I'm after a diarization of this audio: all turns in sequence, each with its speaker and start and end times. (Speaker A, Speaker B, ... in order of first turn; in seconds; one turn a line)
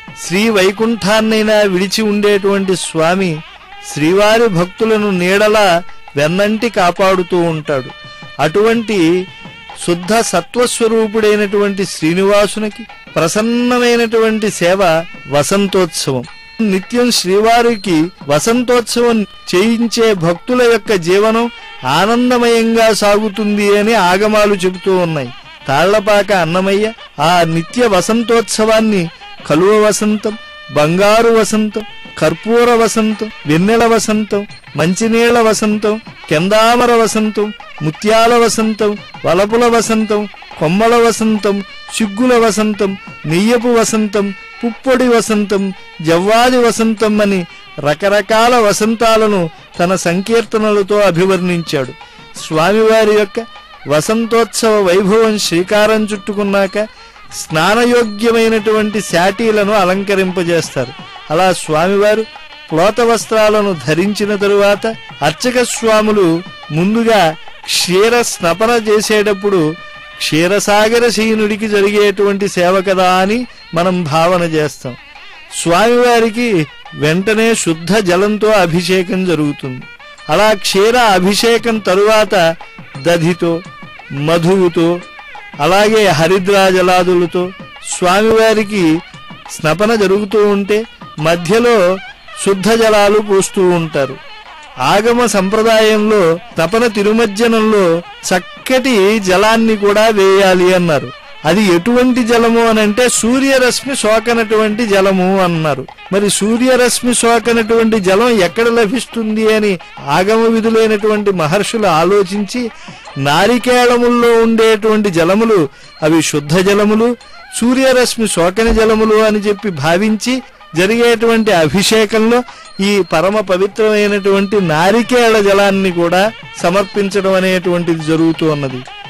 Speaker A: 0.2-3.4
Speaker A: 3.9-7.9
Speaker A: 8.4-9.1
Speaker A: 9.8-56.9
Speaker A: 57.5-69.6
Speaker A: 70.2-75.0
Speaker A: 75.6-76.5
Speaker A: 77.0-82.4
Speaker A: 83.0-83.5
Speaker A: 84.3-84.9
Speaker A: 85.6-87.5
Speaker A: 88.0-88.9
Speaker A: 89.6-91.8
Speaker A: 92.5-94.2
Speaker A: 94.9-112.7
Speaker A: 113.3-128.8